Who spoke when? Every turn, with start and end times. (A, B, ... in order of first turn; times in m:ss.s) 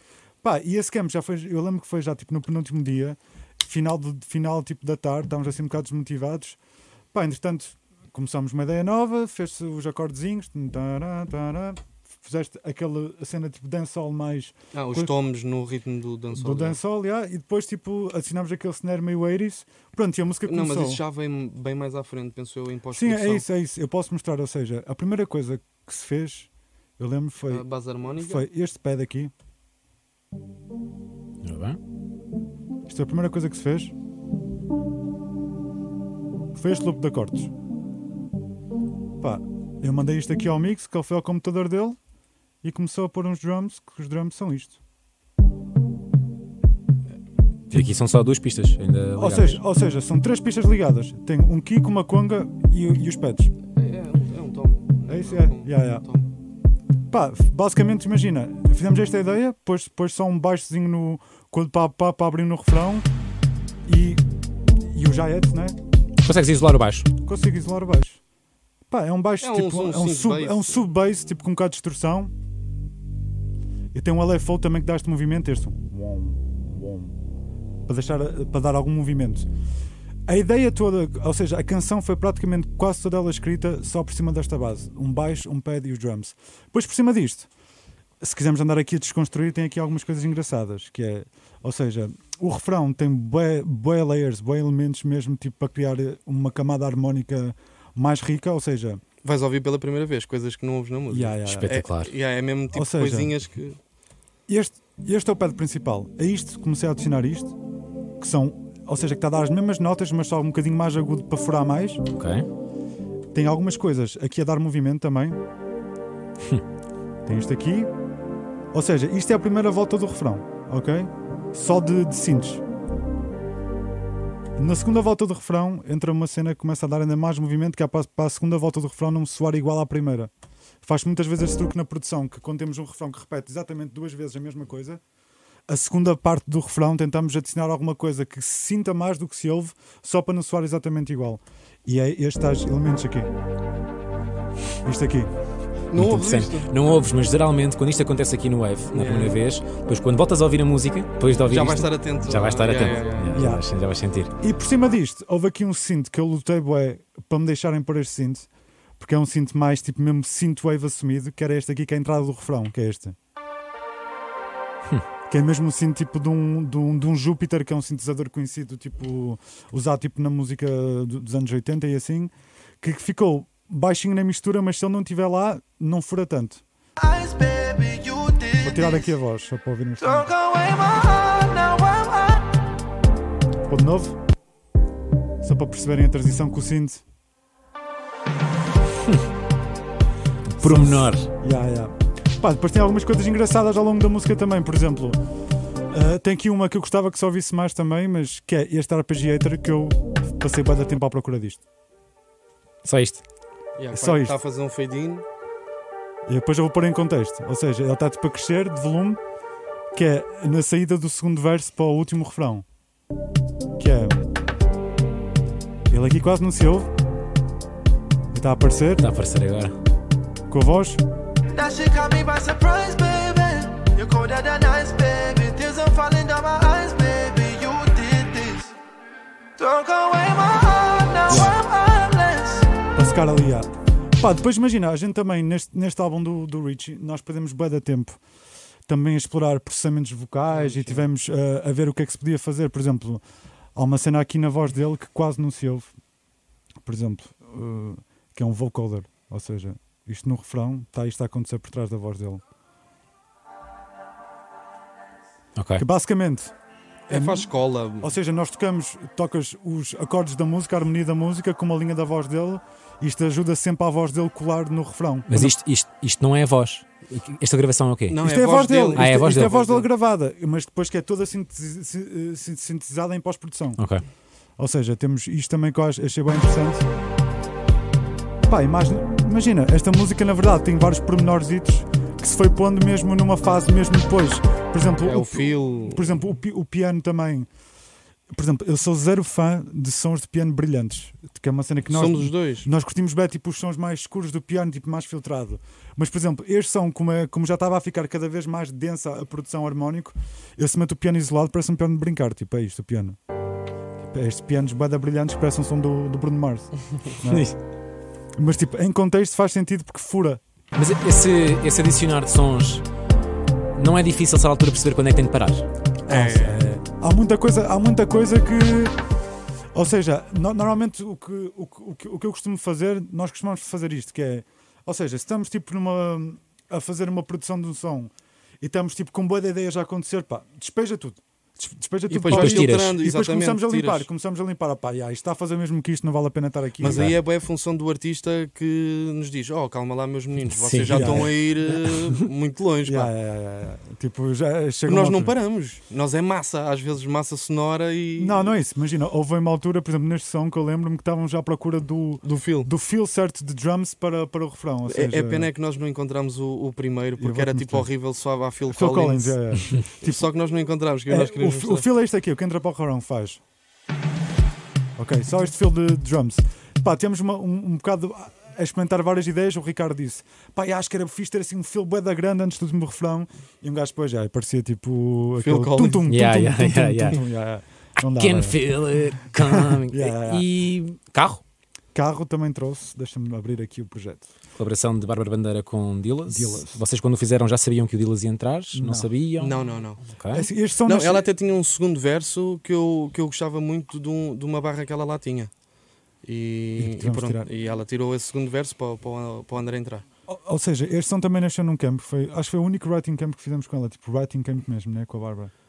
0:00.4-0:06.6 A
0:07.1-0:15.1 A
0:14.7-0:16.8 B
0:16.4-0:21.0 A
0:20.5-0:23.4 B
0:22.9-0:27.6 A
0:27.5-0:28.4 B
0:28.2-0:29.3 A
0:31.4-0:31.8 C
0:32.9-0:33.9 A
0:36.5-0:37.5 A
0:39.2-0:42.0 A
0:42.6-0:44.8 A
0:47.7-0:49.6 C
0:49.2-0:53.5 A
0:53.8-0:56.3 B
0:55.1-0:56.0 A
0:57.1-1:03.1 A
1:03.9-1:04.2 A
1:04.8-1:05.8 A
1:06.2-1:07.1 C
1:07.2-1:08.2 A
1:08.9-1:12.3 A
1:09.4-1:10.7 B
1:13.9-1:17.2 A
1:17.9-1:19.5 A
1:20.3-1:27.5 A
1:28.2-1:39.0 A
1:39.2-1:43.8 B
1:41.1-1:41.7 A
1:41.5-1:42.1 C
1:42.7-1:43.3 A
1:44.5-1:47.6 A
1:48.2-1:52.0 A
1:52.1-1:52.5 C
1:53.3-1:55.4 A
1:57.3-1:57.9 A
1:58.7-2:02.6 A
2:04.6-2:10.3 A
2:10.8-2:15.0 A
2:15.7-2:23.3 A
2:24.8-2:25.3 A
2:25.9-2:26.7 B
2:25.9-2:34.3 C
2:28.9-2:29.4 B
2:31.5-2:33.4 B
2:33.3-2:33.7 A
2:34.4-2:38.5 A
2:39.0-2:43.2 A
2:45.3-2:56.6 A
2:57.0-2:59.1 D
2:58.6-3:00.3 A
3:00.0-3:02.6 D
3:03.7-3:04.2 A
3:05.4-3:07.0 A
3:10.5-3:11.3 C
3:10.6-3:15.2 A
3:15.9-3:21.6 A
3:22.8-3:23.2 C
3:23.8-3:25.2 B
3:23.9-3:24.4 A
3:26.3-3:29.2 A
3:29.9-3:32.6 A
3:33.8-3:34.3 A
3:35.9-3:36.9 A
3:38.3-3:39.1 A
3:39.0-3:39.8 C
3:40.5-3:41.0 A
3:41.5-3:48.7 D
3:49.6-3:52.7 D
3:51.3-3:51.6 A
3:53.0-3:58.2 A
3:58.9-4:03.2 A
4:00.5-4:01.1 B
4:03.8-4:05.9 A
4:06.8-4:12.4 A
4:15.6-4:15.8 C
4:15.8-4:16.5 A
4:17.1-4:18.1 B
4:17.1-4:17.5 A
4:18.0-4:25.6 A
4:25.3-4:28.2 C
4:28.1-4:29.9 B
4:28.2-4:33.8 A
4:29.0-4:29.6 C
4:33.8-4:34.0 C
4:34.6-4:36.9 A
4:38.5-4:47.5 A
4:45.0-4:46.2 B
4:48.3-5:03.2 A
4:51.9-4:52.7 B
5:04.0-5:07.5 A
5:07.2-5:07.6 C
5:08.4-5:10.4 A
5:10.8-5:12.8 C
5:13.8-5:15.7 C
5:16.1-5:16.7 B
5:16.1-5:19.0 A
5:19.7-5:37.1 A
5:32.1-5:34.1 B
5:32.3-5:33.0 C
5:36.8-5:43.1 B
5:36.8-5:37.2 C
5:40.5-5:41.4 C
5:40.8-5:41.8 A
5:42.8-5:45.4 A
5:44.9-5:48.5 B
5:48.2-5:55.5 A
5:52.2-5:52.7 B
5:54.9-6:01.9 B
5:57.2-5:57.9 A
5:58.7-6:00.3 A
6:01.1-6:03.4 A
6:05.0-6:18.6 A
6:15.4-6:16.1 B
6:16.1-6:17.2 C
6:18.2-6:21.4 C
6:19.4-6:20.4 A
6:22.0-6:24.3 A
6:24.6-6:30.5 C
6:26.3-6:26.8 A
6:28.7-6:29.1 A
6:29.4-6:30.0 B
6:30.3-6:31.3 A
6:30.9-6:35.5 B
6:36.2-6:40.0 B
6:36.8-6:37.5 A
6:40.3-6:45.5 A